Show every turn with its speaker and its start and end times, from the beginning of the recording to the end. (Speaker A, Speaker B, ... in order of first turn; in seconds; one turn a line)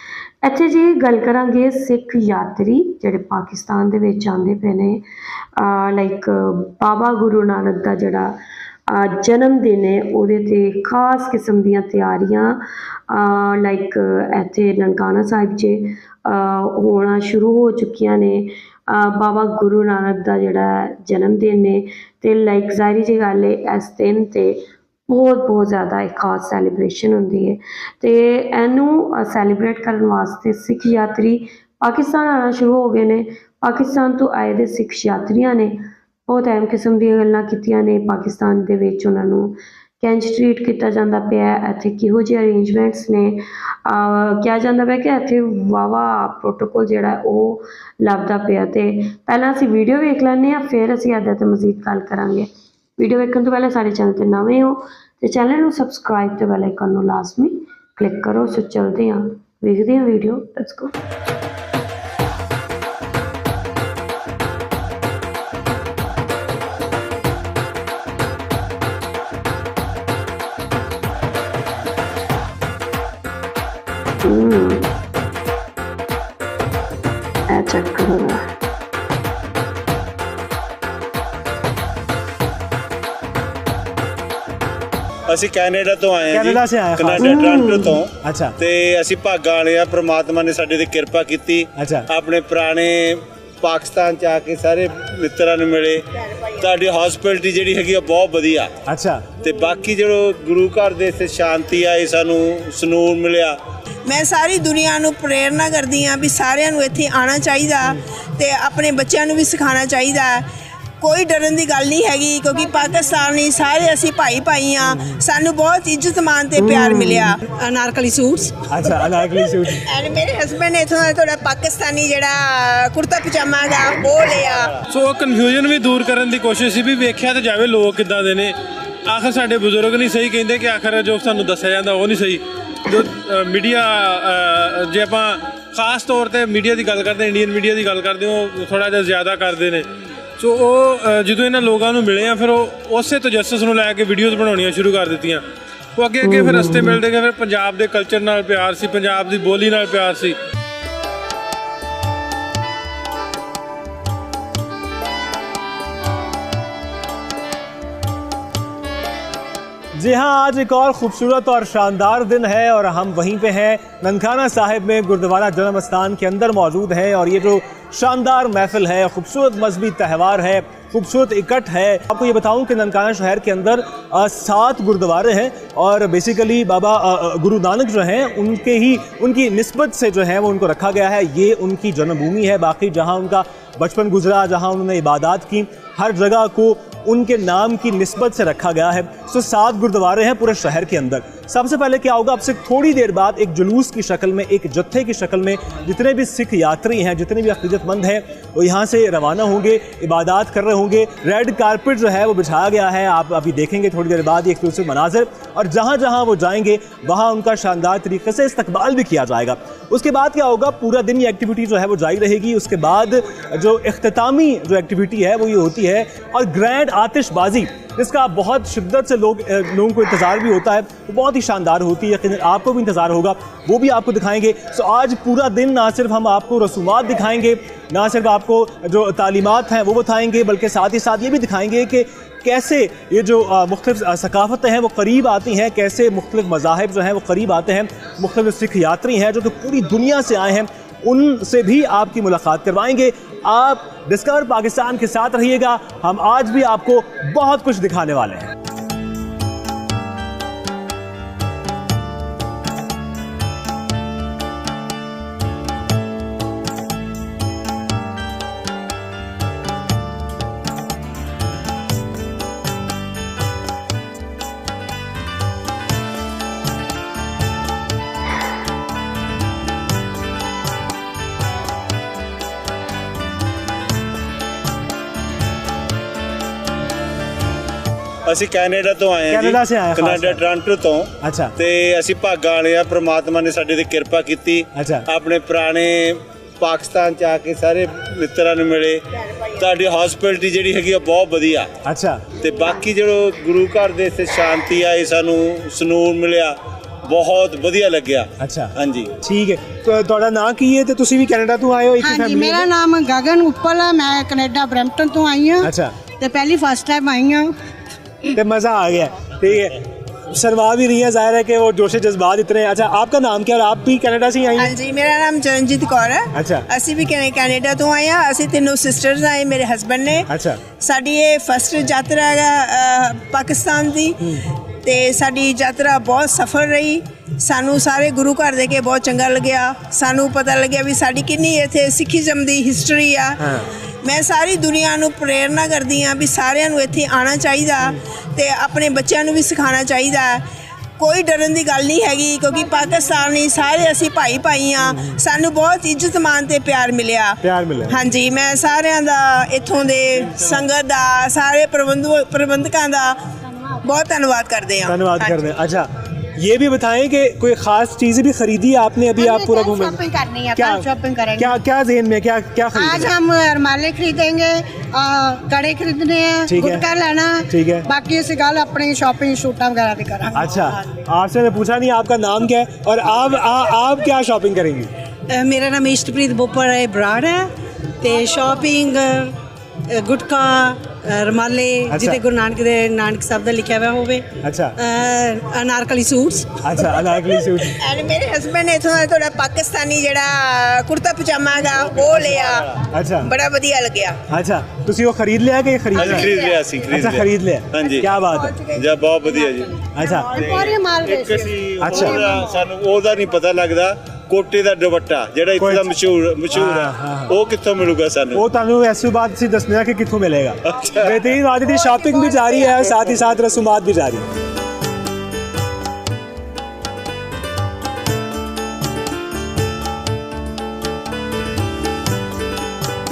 Speaker A: 0.4-5.0
Speaker A: 5.6-8.4
Speaker A: 8.9-35.8
Speaker A: 36.3-60.9
Speaker A: 74.2-74.9
Speaker A: 77.5-78.4
Speaker B: 85.3-98.7
Speaker C: 86.3-87.3
Speaker A: 87.2-88.0
Speaker C: 88.2-88.6
Speaker C: 91.8-92.1
Speaker C: 98.8-99.4
Speaker B: 99.4-103.6
Speaker D: 104.0-110.5
Speaker D: 111.0-117.4
Speaker C: 114.9-115.2
Speaker A: 116.6-117.3
Speaker E: 117.5-118.7
Speaker C: 118.7-119.8
Speaker D: 119.8-124.8
Speaker F: 124.9-128.6
Speaker F: 129.1-145.4
Speaker F: 145.9-150.3
Speaker A: 146.2-147.0
Speaker C: 160.0-248.5
Speaker B: 278.2-291.7
Speaker C: 279.3-280.4
Speaker C: 281.2-281.5
Speaker C: 284.7-285.1
Speaker C: 291.8-292.4
Speaker B: 292.4-299.1
Speaker C: 298.4-302.7
Speaker G: 302.0-307.5
Speaker C: 305.6-306.0
Speaker C: 308.3-314.7
Speaker D: 314.6-320.3
Speaker C: 316.3-316.6
Speaker C: 320.3-320.6
Speaker D: 320.8-340.4
Speaker C: 333.4-333.7
Speaker D: 341.0-353.3
Speaker C: 344.8-345.2
Speaker C: 347.4-348.0
Speaker D: 353.8-355.3
Speaker C: 354.9-359.9
Speaker G: 359.1-361.5
Speaker C: 360.5-360.9
Speaker C: 361.4-363.1
Speaker G: 362.7-370.9
Speaker C: 366.4-366.9
Speaker C: 367.5-367.9
Speaker C: 370.3-374.9
Speaker E: 375.3-379.4
Speaker E: 379.9-386.7
Speaker C: 381.9-382.2
Speaker C: 384.4-384.7
Speaker C: 386.6-387.8
Speaker D: 387.8-394.2
Speaker C: 392.9-393.3
Speaker C: 394.3-396.3
Speaker B: 395.9-408.4
Speaker C: 396.9-398.6
Speaker C: 399.9-400.3
Speaker G: 400.0-402.6
Speaker C: 401.8-402.2
Speaker C: 405.6-405.9
Speaker C: 406.5-407.4
Speaker C: 408.3-414.3
Speaker B: 410.7-411.1